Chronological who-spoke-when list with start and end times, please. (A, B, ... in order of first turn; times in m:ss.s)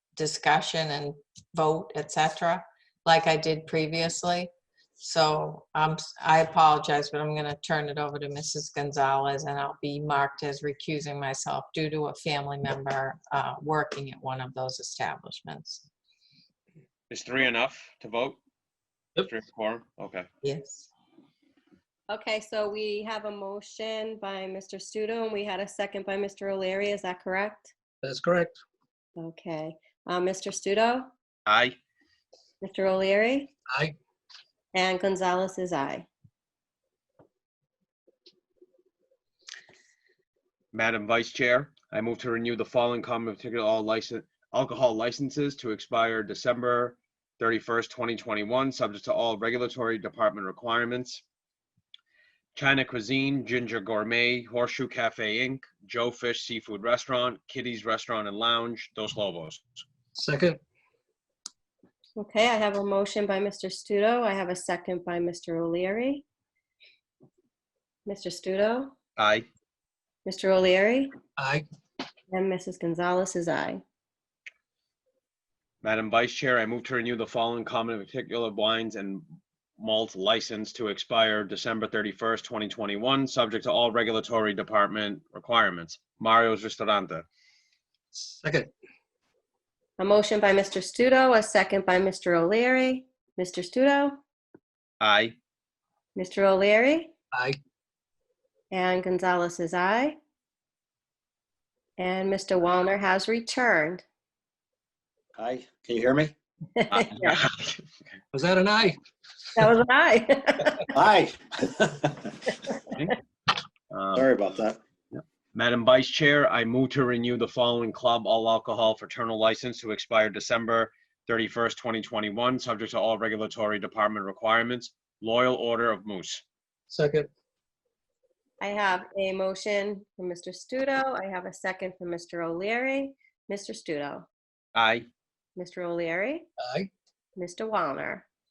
0:00.2-0:15.8 A
0:17.1-0:18.4 B
0:19.2-0:20.3 B
0:20.4-0:20.9 A
0:22.1-0:27.7 C
0:28.0-0:28.6 D
0:29.2-0:31.1 C
0:31.5-0:31.8 B
0:32.6-0:33.5 C
0:33.7-0:34.0 D
0:34.7-0:36.1 C
0:40.7-0:51.2 B
0:52.6-0:59.6 B
1:00.1-1:00.6 D
1:02.2-1:06.2 C
1:08.1-1:09.0 C
1:09.2-1:09.4 B
1:10.2-1:11.2 C
1:11.4-1:11.6 D
1:12.3-1:13.8 C
1:15.8-1:19.2 B
1:19.8-1:27.3 B
1:28.1-1:28.7 D
1:30.0-1:34.2 C
1:35.0-1:35.4 B
1:36.2-1:37.1 C
1:37.3-1:37.6 D
1:38.7-1:40.2 C
1:42.0-1:44.0 C
1:45.4-1:46.3 E
1:46.8-1:47.4 C
1:46.9-1:47.8 B
1:48.3-1:49.0 D
1:49.6-1:50.9 C
1:50.9-1:52.3 E
1:53.9-1:54.3 B
1:54.1-1:54.8 E
1:55.1-2:06.4 B
2:06.9-2:07.3 D
2:08.6-2:14.3 C
2:14.8-2:15.1 B
2:15.6-2:16.5 C
2:16.6-2:16.9 D
2:17.4-2:18.2 C